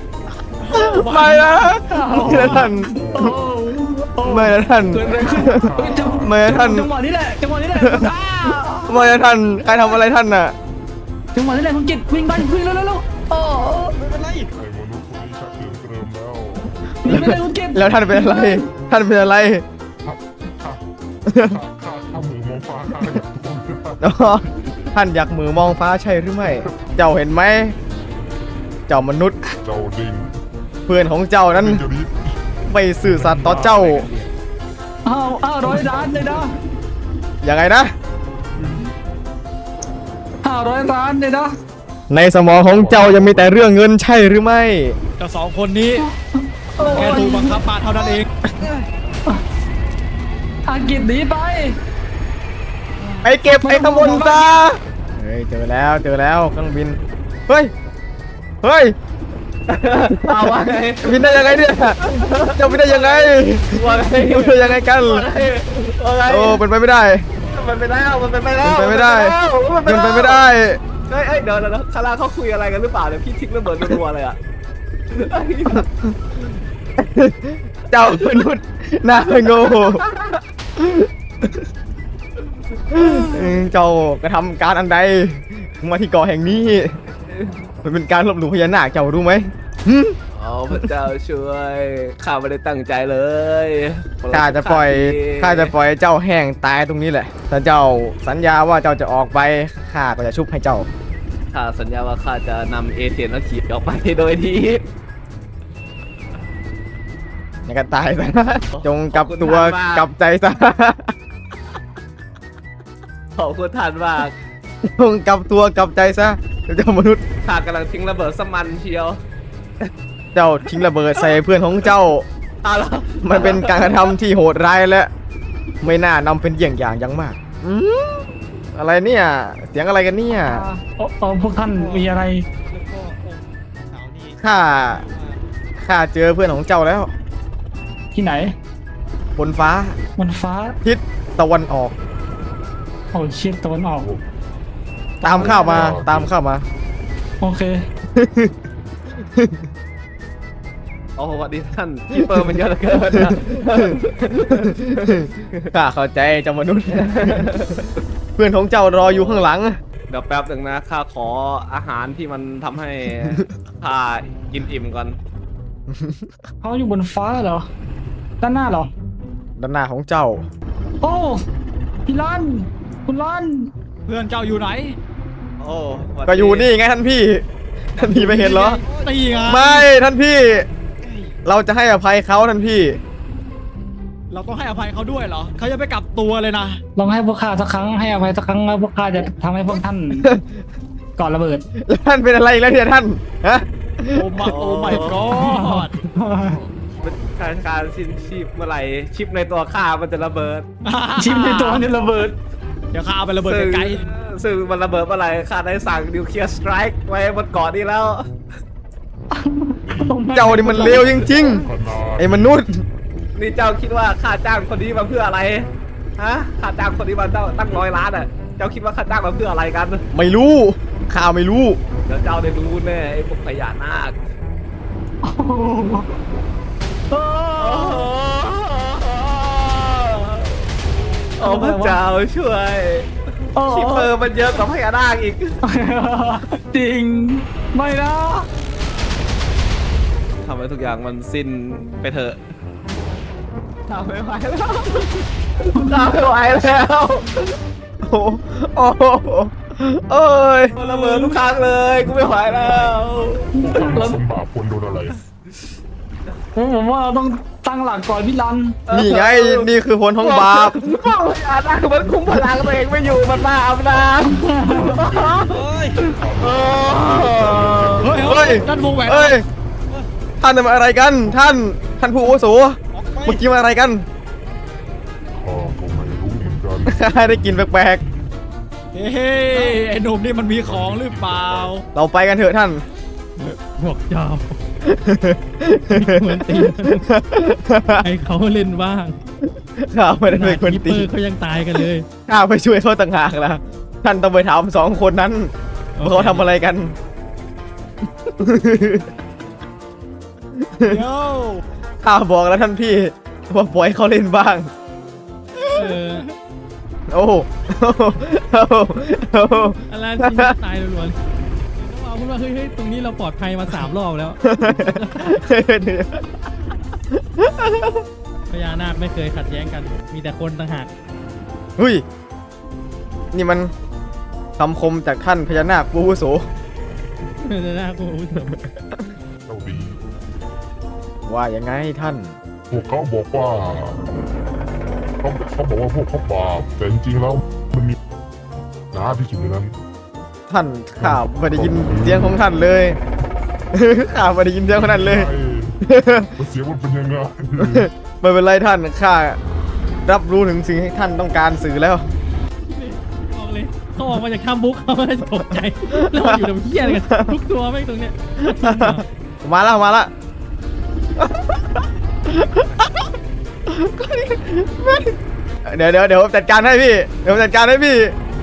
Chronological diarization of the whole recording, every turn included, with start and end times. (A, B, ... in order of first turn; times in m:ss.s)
0:00.6-0:02.6 A
0:00.7-0:02.9 B
0:01.9-0:09.1 C
0:02.2-0:03.5 D
0:04.2-0:06.9 B
0:05.0-0:06.6 D
0:07.7-0:08.1 B
0:08.9-0:10.5 B
0:09.7-0:10.0 C
0:11.3-0:14.0 C
0:14.0-0:14.5 E
0:14.5-0:17.2 D
0:17.0-0:18.6 C
0:17.0-0:19.6 B
0:20.0-0:20.8 D
0:21.3-0:21.6 B
0:21.3-0:24.9 D
0:24.0-0:27.7 B
0:26.4-0:26.8 D
0:28.9-0:29.4 B
0:29.6-0:30.3 D
0:30.9-0:31.8 B
0:31.5-0:32.4 D
0:32.7-0:34.1 B
0:33.0-0:34.3 D
0:35.0-0:36.6 C
0:35.8-0:36.2 D
0:37.4-0:37.9 B
0:38.6-0:38.8 D
0:40.4-0:41.5 C
0:42.1-0:45.0 B
0:42.6-0:43.6 D
0:45.2-0:46.0 A
0:46.0-0:47.6 C
0:46.9-0:48.3 A
0:50.6-0:51.8 C
0:53.2-0:57.7 B
0:53.3-0:54.6 C
0:58.6-0:59.0 B
0:59.7-1:06.6 F
1:00.3-1:05.3 B
1:06.3-1:07.2 B
1:07.5-1:10.5 F
1:08.6-1:10.8 B
1:11.1-1:14.4 F
1:15.1-1:15.9 F
1:17.0-1:20.0 B
1:19.5-1:20.4 F
1:20.8-1:21.7 B
1:22.9-1:27.0 B
1:22.9-1:23.6 F
1:27.3-1:27.6 F
1:27.8-1:30.2 B
1:30.3-1:35.7 F
1:34.3-1:40.9 B
1:41.5-1:44.8 F
1:47.7-1:51.1 B
1:48.8-1:50.1 F
1:53.4-1:54.3 F
1:54.8-1:57.2 B
1:57.4-1:59.2 F
2:00.3-2:02.3 B
2:00.8-2:01.3 F
2:02.6-2:04.2 F
2:03.2-2:05.1 B
2:05.8-2:10.6 B
2:10.3-2:12.4 C
2:11.6-2:15.4 E
2:14.4-2:15.0 B
2:15.8-2:17.1 B
2:18.1-2:18.5 C
2:19.4-2:20.0 B
2:20.2-2:20.8 C
2:20.8-2:21.9 B
2:23.1-2:24.1 C
2:24.0-2:24.2 D
2:25.2-2:26.6 B
2:25.2-2:25.9 C
2:25.3-2:26.3 D
2:27.4-2:27.8 C
2:28.2-2:28.5 B
2:31.2-2:35.3 F
2:33.2-2:33.9 B
2:34.5-2:37.6 B
2:37.0-2:37.9 F
2:38.4-2:39.8 B
2:39.0-2:39.5 F
2:40.1-2:45.2 F
2:45.9-2:46.2 B
2:46.6-2:47.7 C
2:48.4-2:48.9 C
2:49.6-2:50.4 B
2:51.0-2:51.4 C
2:52.0-2:53.7 C
2:54.0-2:55.0 A
2:55.6-2:56.7 F
2:56.2-2:57.4 B
2:58.0-2:58.8 B
2:58.0-2:59.9 A
2:58.8-2:59.6 E
2:59.5-3:00.6 B
3:01.0-3:01.4 E
3:01.4-3:03.0 B
3:04.3-3:06.8 A
3:07.0-3:10.3 C
3:10.2-3:10.4 B
3:11.2-3:11.6 C
3:11.8-3:14.5 B
3:14.1-3:16.2 A
3:14.4-3:15.8 F
3:16.2-3:16.6 D
3:17.0-3:20.6 F
3:20.8-3:21.9 A
3:21.2-3:22.4 C
3:22.9-3:24.0 A
3:23.4-3:28.3 F
3:29.3-3:31.2 C
3:29.8-3:30.2 D
3:30.4-3:31.6 B
3:30.7-3:32.6 D
3:31.1-3:31.5 F
3:32.2-3:32.8 B
3:33.4-3:40.0 F
3:40.1-3:41.8 B
3:42.0-3:44.2 F
3:45.2-3:46.1 C
3:47.1-3:48.1 C
3:47.6-3:50.6 F
3:51.4-3:52.0 C
3:51.4-3:55.6 F
3:53.5-3:54.1 C
3:55.6-3:58.5 C
4:00.4-4:02.4 F
4:03.9-4:07.6 F
4:05.7-4:06.1 C
4:08.0-4:10.7 B
4:10.8-4:14.1 F
4:11.0-4:11.4 C
4:13.5-4:14.2 C
4:13.5-4:15.2 D
4:16.5-4:18.8 C
4:18.9-4:19.7 F
4:18.9-4:20.8 B
4:20.2-4:28.3 F
4:24.2-4:25.0 C
4:24.6-4:29.1 D
4:25.5-4:26.1 E
4:28.0-4:29.4 A
4:28.3-4:29.4 B
4:30.4-4:34.0 B
4:32.9-4:33.4 E
4:35.3-4:38.3 D
4:36.9-4:38.0 B
4:38.9-4:41.8 A
4:39.5-4:39.9 E
4:40.6-4:41.8 D
4:41.9-4:42.8 B
4:43.8-4:44.5 G
4:44.9-4:48.0 B
4:45.9-4:47.0 G
4:48.0-4:49.2 G
4:49.8-4:51.1 B
4:50.3-4:52.0 G
4:51.8-4:56.9 B
4:56.0-4:56.4 G
4:58.4-4:59.1 B
5:00.6-5:01.0 B
5:00.9-5:01.6 A
5:02.0-5:04.7 B
5:05.6-5:05.9 B
5:05.7-5:06.3 G
5:07.1-5:10.6 B
5:09.9-5:11.2 G
5:11.8-5:15.4 G
5:14.4-5:16.2 B
5:17.2-5:17.9 B
5:18.5-5:20.9 G
5:21.8-5:22.0 B
5:23.3-5:23.7 B
5:24.6-5:26.5 B
5:27.4-5:28.6 G
5:29.5-5:30.0 D
5:31.3-5:32.4 B
5:32.7-5:34.1 D
5:35.2-5:38.0 D
5:38.9-5:39.8 D
5:40.5-5:43.0 B
5:41.0-5:42.4 D
5:43.7-5:45.3 B
5:44.7-5:45.8 D
5:45.8-5:46.3 B
5:46.4-5:47.9 D
5:47.6-5:49.4 B
5:50.0-5:52.1 B
5:52.7-5:59.0 G
5:55.9-5:57.4 B
5:58.4-6:00.1 B
6:01.2-6:01.6 B
6:02.2-6:03.1 B
6:03.7-6:05.1 B
6:05.6-6:08.1 B